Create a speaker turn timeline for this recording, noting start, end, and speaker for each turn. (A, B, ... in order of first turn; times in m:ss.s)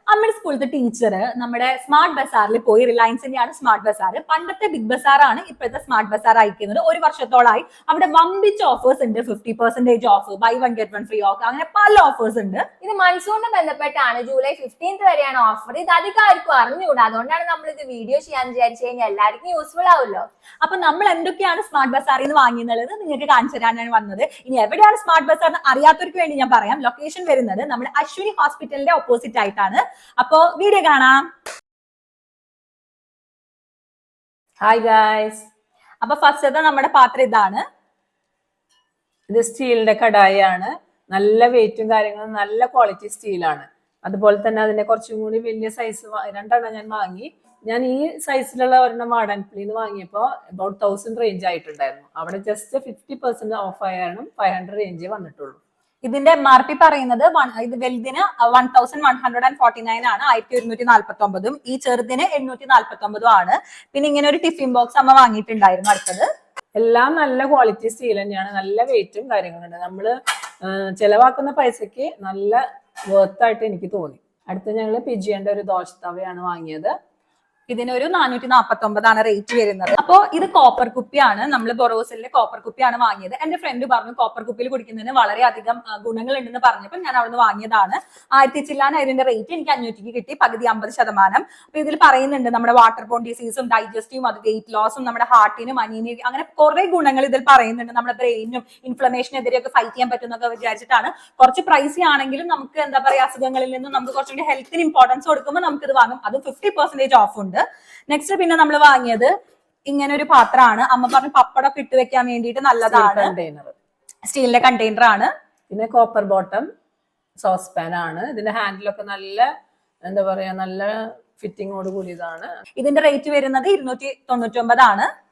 0:00.1-0:12.6 A
0:12.8-0:20.2 B
0:20.6-0:31.2 A
0:34.6-0:35.4 C
0:36.0-0:37.6 A
0:39.3-0:55.6 C
0:56.0-1:06.3 A
1:06.8-1:12.6 C
1:13.1-1:16.9 C
1:17.7-1:49.3 A
1:49.9-1:53.3 A
1:52.9-1:53.7 C
1:54.3-1:55.3 A
1:55.7-1:56.7 C
1:57.4-1:59.5 C
2:00.0-2:02.5 C
2:02.8-2:05.1 A